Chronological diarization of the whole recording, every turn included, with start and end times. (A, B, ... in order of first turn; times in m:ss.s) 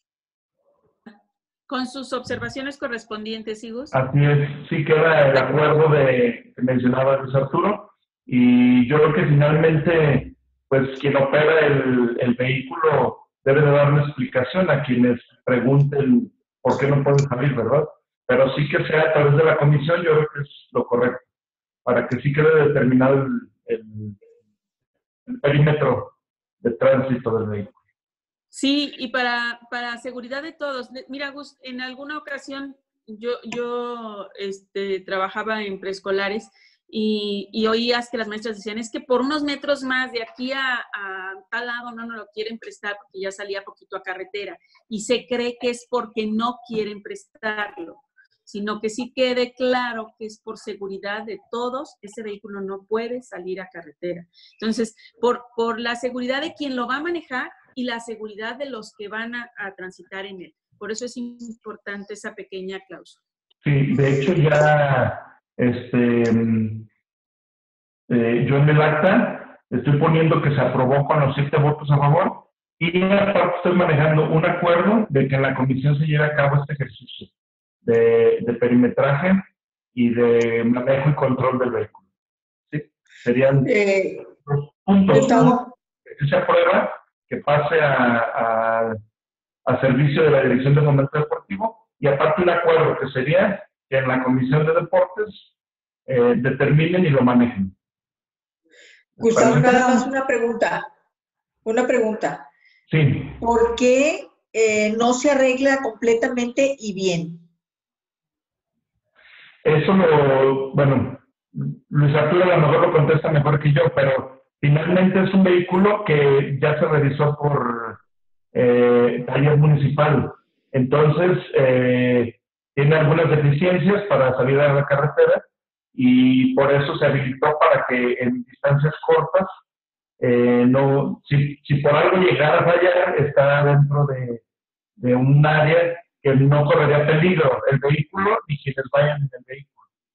0:01.7-0:03.9 A
0:03.9-0:21.3 B
0:21.8-0:24.2 B
0:25.3-0:27.7 B
0:28.5-1:03.2 A
1:03.6-1:06.9 B
1:08.1-1:17.3 B
1:17.8-1:22.1 B
1:22.7-1:23.7 B
1:23.6-1:24.2 C
1:24.3-1:29.0 B
1:25.1-1:25.7 C
1:29.6-1:35.5 B
1:36.1-1:37.7 B
1:39.2-1:40.9 C
1:39.2-1:40.0 B
1:41.6-1:42.5 C
1:42.9-1:43.4 B
1:43.4-1:47.5 C
1:49.6-1:58.0 B
1:58.5-2:09.5 B
2:10.2-2:14.4 B
2:15.0-2:19.8 B